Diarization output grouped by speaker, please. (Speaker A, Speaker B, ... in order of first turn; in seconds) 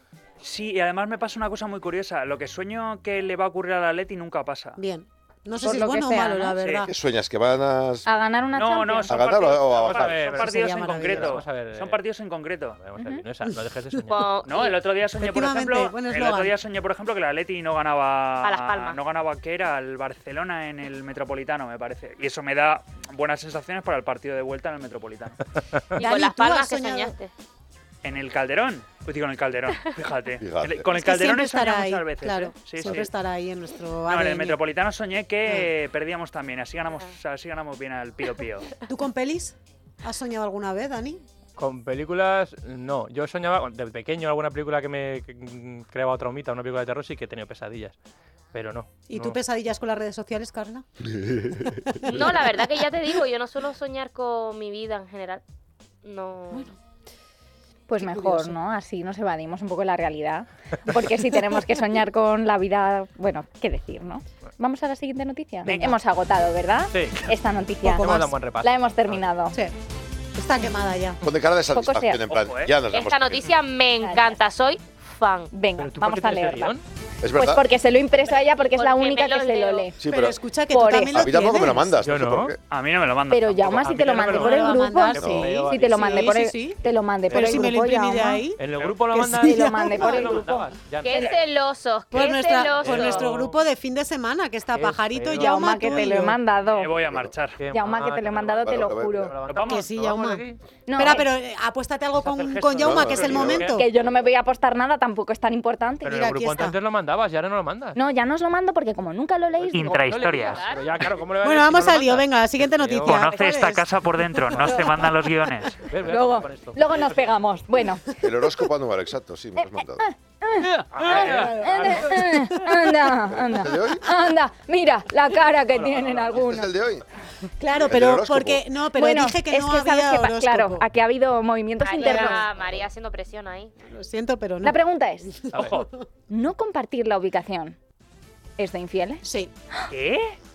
Speaker A: 0.4-4.8, 6.6-6.9, 8.5-12.8, 14.4-25.4, 28.0-33.1, 34.1-38.8, 65.7-66.0, 72.3-72.8, 82.7-84.3, 88.7-89.0, 91.1-91.4, 96.7-97.6, 99.5-99.9, 102.2-103.5, 109.7-110.7, 113.0-115.8, 139.9-140.4
Speaker B: 4.8-6.9, 10.4-11.4, 15.2-16.5, 25.9-27.1, 30.9-34.6, 35.5-35.7, 38.9-41.2, 49.1-50.9, 58.0-58.6, 67.8-68.4, 70.3-71.2, 80.0-82.0, 84.3-86.8, 87.3-90.7, 92.1-96.4, 99.6-100.4, 101.0-103.8, 106.0-106.8, 111.4-113.9, 121.0-123.3, 127.6-130.8, 132.0-132.4, 133.9-135.9, 139.2-139.5
Speaker C: 5.6-6.6, 8.1-9.2, 13.0-13.2, 57.9-69.6, 71.7-72.2, 74.0-74.4, 75.5-76.8, 77.3-80.0, 80.7-81.3, 83.3-88.4, 89.3-90.6, 95.3-96.9, 97.7-99.3, 100.9-101.3, 103.8-106.2, 108.0-110.0, 116.0-118.0, 119.6-126.7, 128.9-132.5, 134.6-135.3, 136.3-137.8, 138.6-139.9
Speaker D: 6.9-8.1, 9.1-10.4, 30.4-30.9, 51.1-52.3, 71.2-73.5, 77.2-77.6, 80.0-80.4, 81.1-82.6, 85.2-85.5, 97.0-97.3, 98.6-99.4, 102.8-103.7, 118.2-120.1, 123.3-124.3, 126.3-127.0, 127.9-128.7
Speaker E: 9.8-12.0, 12.8-14.3, 41.6-48.0, 48.5-49.4, 66.9-67.2, 67.9-69.2, 75.8-76.8, 82.0-82.6, 83.8-84.8, 85.3-86.3, 87.3-87.8, 88.6-91.3, 92.3-93.6, 94.7-95.8, 97.6-100.6, 103.4-103.7, 106.0-108.0, 109.7-113.3, 114.6-115.1, 115.8-117.1, 120.6-122.2, 125.7-126.4, 135.5-135.9
Speaker F: 14.1-14.8, 18.4-19.0, 25.9-27.3, 52.1-55.4, 56.0-56.7, 72.9-75.5, 78.3-79.9, 91.0-93.4, 110.3-110.9, 131.8-133.7